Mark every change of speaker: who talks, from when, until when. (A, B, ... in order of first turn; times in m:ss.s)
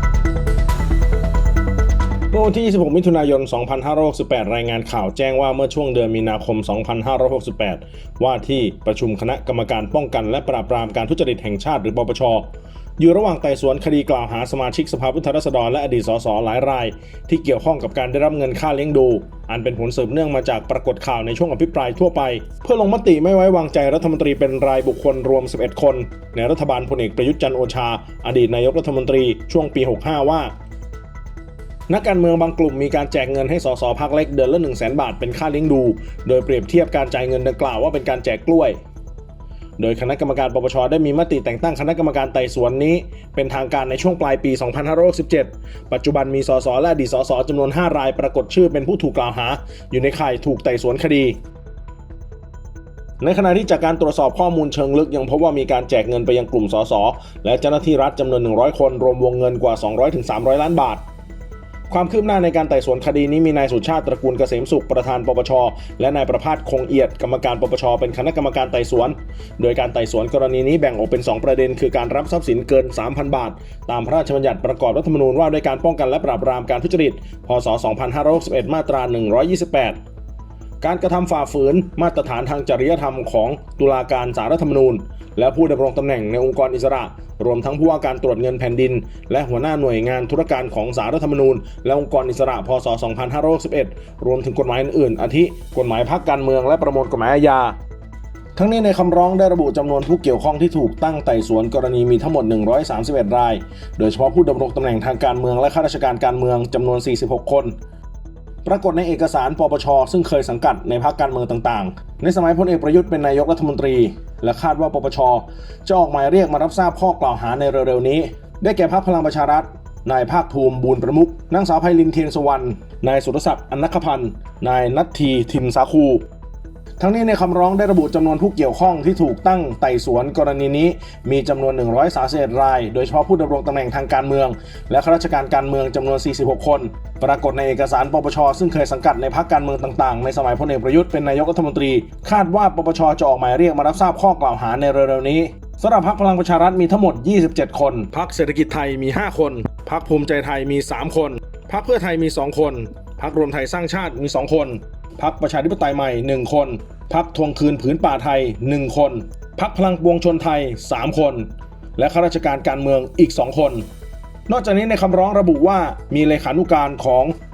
0:02.3-0:30.5 A
0:31.9-0:38.8 A
0:39.8-0:51.4 A
0:53.2-1:01.0 A
1:01.9-1:20.0 A
1:20.8-1:37.8 A
1:38.6-1:47.8 A
1:48.6-2:06.2 A
2:07.0-2:43.9 A
2:44.5-2:47.3 A